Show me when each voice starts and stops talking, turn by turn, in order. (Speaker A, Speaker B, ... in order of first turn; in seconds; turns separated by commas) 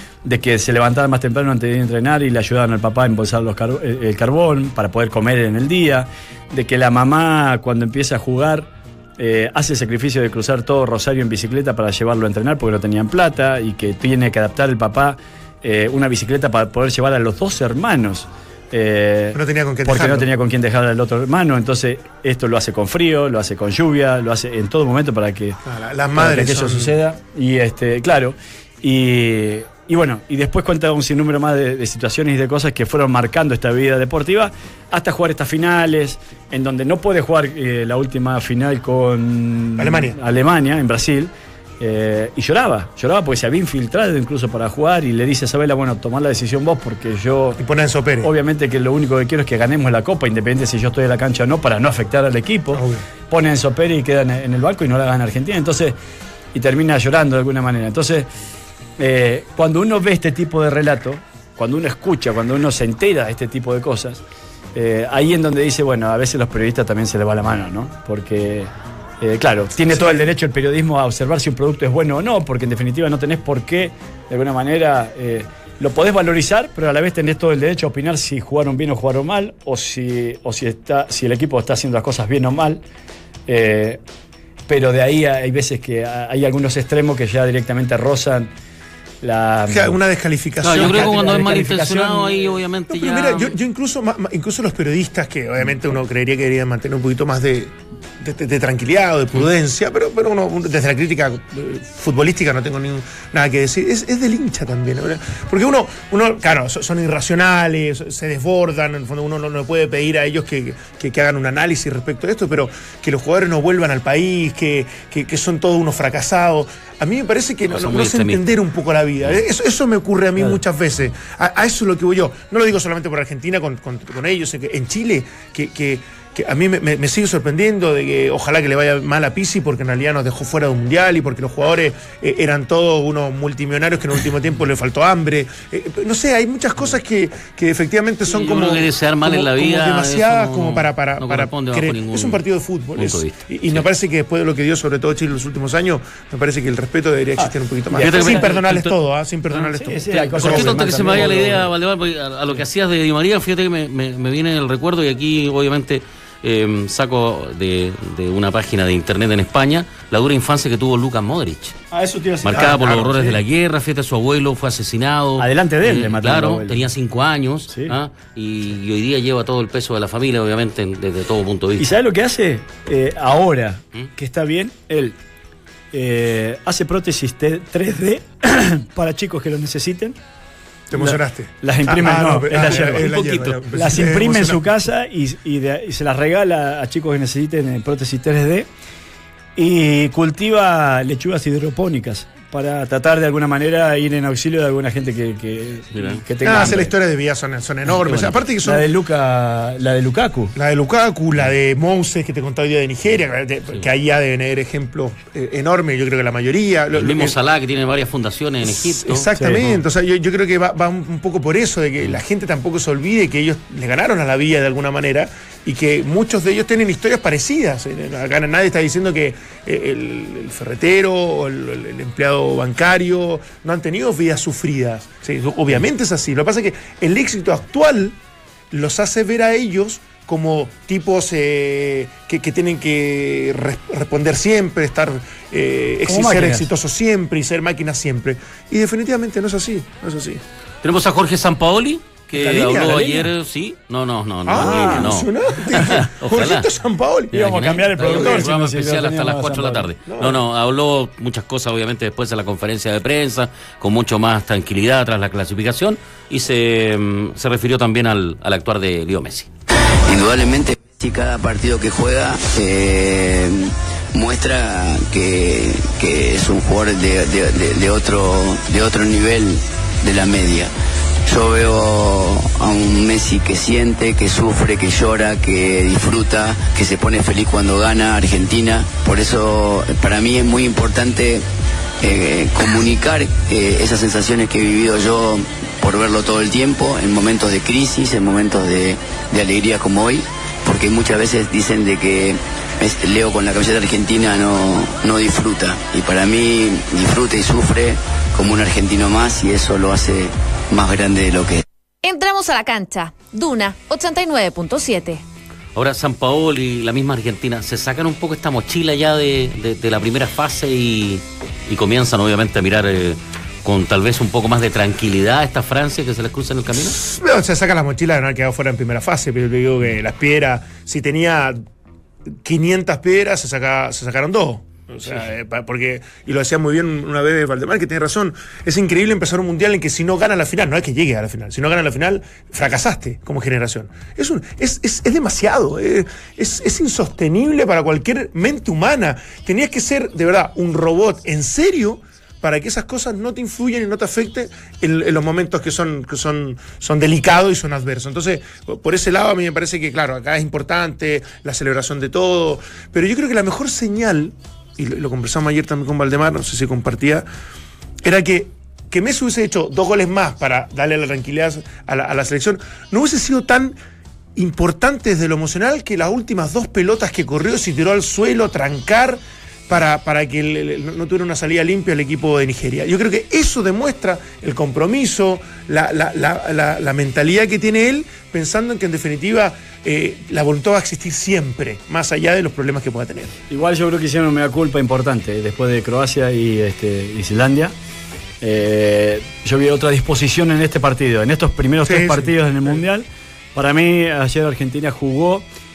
Speaker A: 0.2-25.6, Speaker B: 19.3-20.3, Speaker B: 25.6-26.9, Speaker A: 26.1-47.6, Speaker B: 39.8-40.2, Speaker B: 47.6-48.3, Speaker A: 48.2-56.0, Speaker B: 52.7-53.0, Speaker A: 56.5-58.3, Speaker A: 59.0-64.2, Speaker A: 64.7-82.8, Speaker B: 69.9-70.2, Speaker A: 83.5-84.0, Speaker A: 84.7-88.5, Speaker A: 89.2-90.0, Speaker B: 89.7-91.5, Speaker C: 90.6-93.5, Speaker A: 90.7-92.5, Speaker B: 92.9-151.2, Speaker C: 117.7-118.5, Speaker C: 138.3-143.9, Speaker A: 147.4-148.5, Speaker C: 147.9-148.9, Speaker A: 149.5-151.7, Speaker C: 150.1-161.8, Speaker A: 161.9-163.1, Speaker C: 162.4-171.9, Speaker B: 162.5-163.4, Speaker A: 165.4-166.9, Speaker A: 167.7-167.9, Speaker A: 171.8-175.2, Speaker A: 175.9-180.2, Speaker B: 180.9-184.8, Speaker A: 180.9-188.7, Speaker A: 189.6-196.9, Speaker C: 195.9-196.2, Speaker B: 196.4-198.9, Speaker A: 197.9-200.5, Speaker B: 200.6-207.4, Speaker C: 206.9-209.7, Speaker B: 208.6-228.2, Speaker A: 209.3-209.6, Speaker B: 228.7-240.4, Speaker A: 236.1-236.7, Speaker C: 240.8-246.7, Speaker B: 242.3-243.2, Speaker B: 244.4-248.5, Speaker A: 244.5-245.1, Speaker C: 247.3-259.5, Speaker A: 247.3-249.9, Speaker B: 250.1-250.4, Speaker D: 260.1-270.7, Speaker D: 271.2-281.4, Speaker D: 282.0-301.6, Speaker E: 302.0-305.2, Speaker C: 305.7-317.0, Speaker B: 317.0-321.6, Speaker B: 322.4-357.2, Speaker B: 358.0-363.8, Speaker B: 364.3-383.3, Speaker A: 383.5-387.7, Speaker A: 388.4-395.4, Speaker B: 391.8-392.3